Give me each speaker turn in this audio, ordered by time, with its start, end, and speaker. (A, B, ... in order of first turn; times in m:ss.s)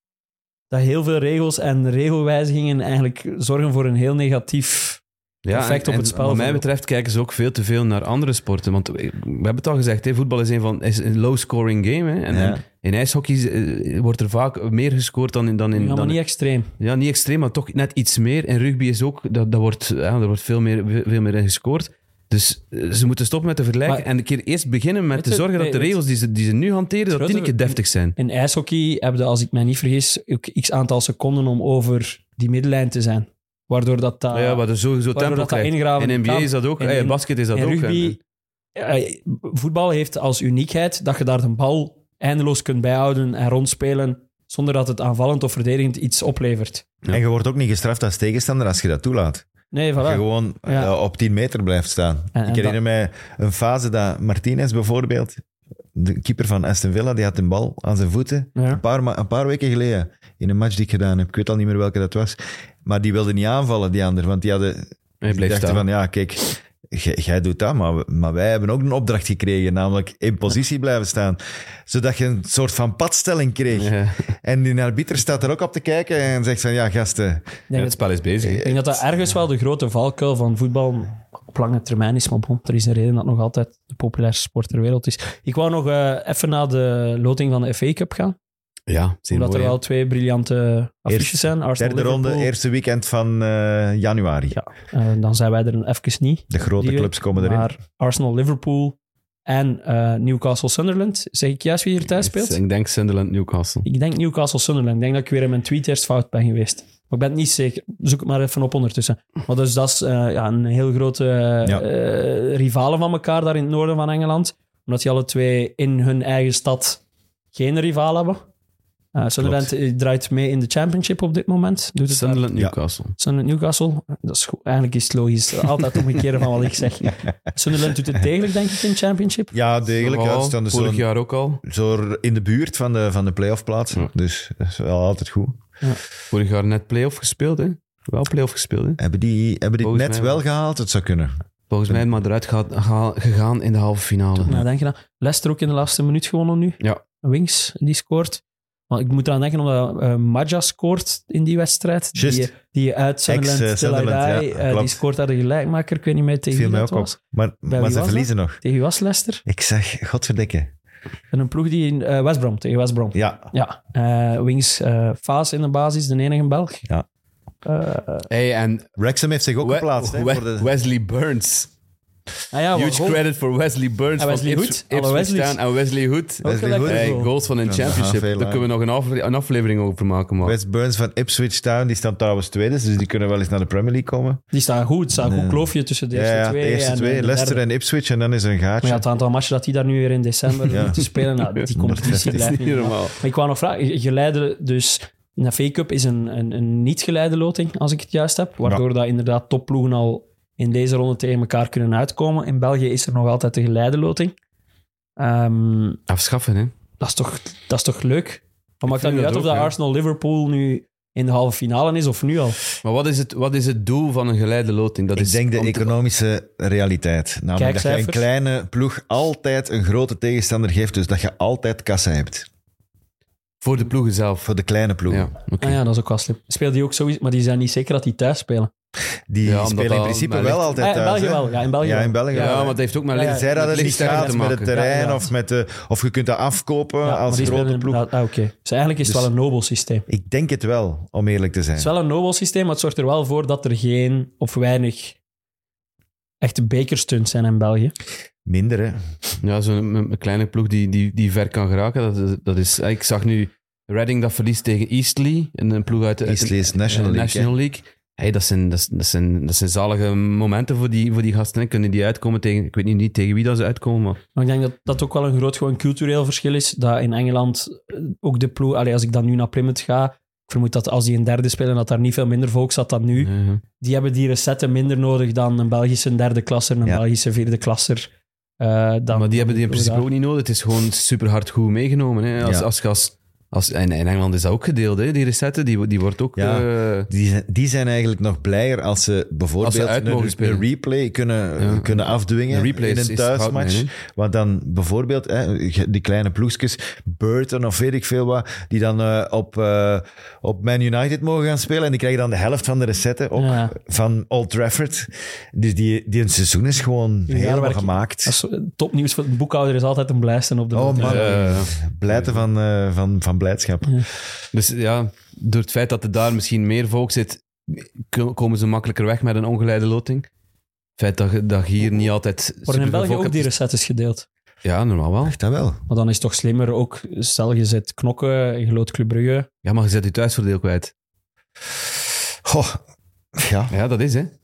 0:00.7-0:06.6 A
0:05.4-0:16.2 B
0:12.3-0:12.6 C
0:15.8-0:16.7 A
0:16.8-0:28.2 B
0:25.2-0:26.0 A
0:27.1-0:34.6 A
0:34.3-0:38.2 B
0:35.1-0:38.2 A
0:38.8-0:46.8 A
0:47.1-0:49.4 C
0:49.7-0:50.9 A
0:50.0-0:55.4 C
0:52.4-0:52.8 A
0:56.0-1:17.6 C
0:58.6-0:58.8 A
1:05.2-1:05.9 B
1:13.7-1:14.3 B
1:17.7-1:18.0 A
1:17.7-1:18.7 B
1:18.4-1:18.7 C
1:18.6-1:28.4 A
1:28.9-1:29.8 B
1:29.3-1:32.5 A
1:31.1-1:34.6 C
1:34.5-1:42.6 A
1:36.5-1:37.7 C
1:42.1-1:43.9 B
1:43.8-1:57.0 A
1:57.5-1:58.4 A
1:59.2-2:02.5 A
2:02.1-2:03.2 B
2:03.2-2:09.5 A
2:09.5-2:11.0 C
2:09.9-2:11.6 B
2:11.6-2:15.6 C
2:16.3-2:19.0 B
2:19.0-2:21.3 C
2:19.8-2:20.4 B
2:21.7-2:24.5 B
2:24.4-2:37.2 A
2:32.2-2:32.5 C
2:33.3-2:35.0 C
2:36.5-2:38.6 C
2:37.7-2:39.4 A
2:39.5-2:40.7 C
2:41.3-2:46.8 A
2:43.1-2:43.4 C
2:47.6-2:48.3 A
2:48.3-2:48.9 B
2:49.0-2:50.7 C
2:49.6-2:51.7 B
2:52.5-2:53.2 A
2:52.7-3:00.6 B
2:54.2-2:55.6 A
2:56.4-2:57.3 A
2:56.4-2:58.7 C
3:00.4-3:04.4 C
3:04.5-3:07.6 A
3:05.2-3:09.0 C
3:08.8-3:24.4 A
3:10.6-3:13.2 B
3:10.7-3:11.0 C
3:11.8-3:12.4 C
3:25.2-3:26.0 A
3:26.1-3:26.7 B
3:27.0-3:32.6 A
3:28.8-3:29.7 B
3:32.8-3:35.9 B
3:35.2-3:42.5 C
3:37.6-3:38.3 A
3:43.6-3:44.5 B
3:44.4-3:45.3 C
3:45.1-3:45.8 B
3:45.6-3:48.7 A
3:49.3-3:58.1 C
3:49.4-3:50.7 B
3:50.8-3:52.6 A
3:52.3-3:54.7 B
3:53.1-3:55.3 A
3:57.0-4:00.1 A
3:57.4-3:57.6 B
3:59.0-3:59.3 C
4:00.1-4:01.9 C
4:01.8-4:05.2 A
4:06.4-4:07.9 A
4:08.4-4:09.0 C
4:09.4-4:24.2 B
4:16.2-4:17.5 C
4:24.4-4:40.0 A
4:33.2-4:33.6 B
4:39.1-4:47.1 B
4:42.4-4:42.7 C
4:46.4-5:08.4 C
4:49.6-4:50.6 B
4:51.6-4:52.0 B
4:52.5-4:53.9 B
5:03.4-5:03.7 A
5:07.3-5:11.4 A
5:10.7-5:14.1 C
5:11.0-5:12.4 B
5:14.5-5:20.3 B
5:21.0-5:23.5 B
5:22.7-5:24.3 A
5:24.6-5:25.4 B
5:25.3-5:25.8 C
5:25.9-5:29.5 A
5:29.6-5:30.9 B
5:32.4-5:32.8 C
5:33.4-5:33.8 C
5:33.7-5:34.3 B